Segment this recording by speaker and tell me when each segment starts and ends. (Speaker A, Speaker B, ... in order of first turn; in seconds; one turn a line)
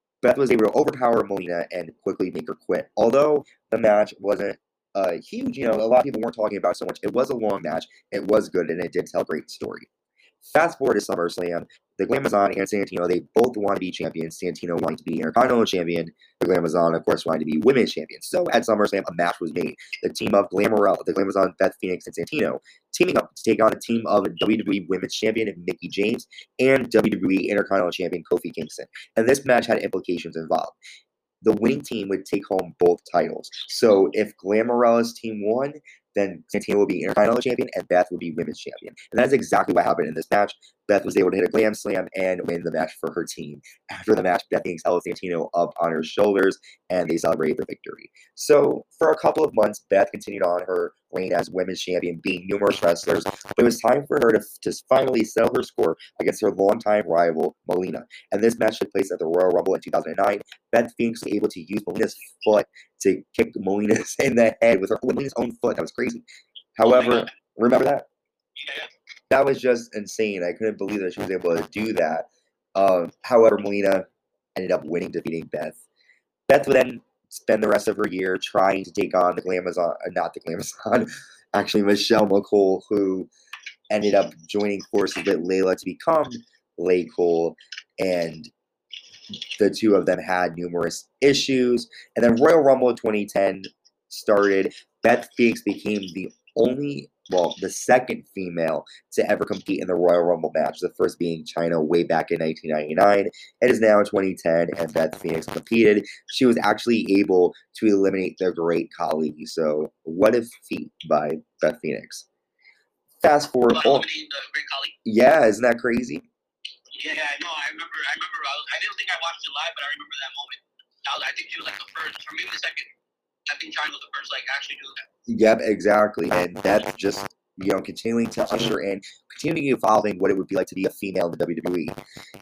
Speaker A: 0.2-9.9
Speaker A: 10.4-30.8
Speaker A: 31.4-66.2
Speaker A: 66.8-68.1
Speaker B: 66.8-67.3
Speaker B: 68.6-68.9
Speaker A: 69.3-75.8
Speaker A: 76.5-83.3
Speaker A: 83.9-88.5
Speaker A: 89.5-112.2
Speaker A: 113.2-114.1
Speaker B: 113.7-114.9
Speaker A: 115.0-116.2
Speaker B: 116.9-122.9
Speaker B: 123.5-125.1
Speaker A: 125.3-132.0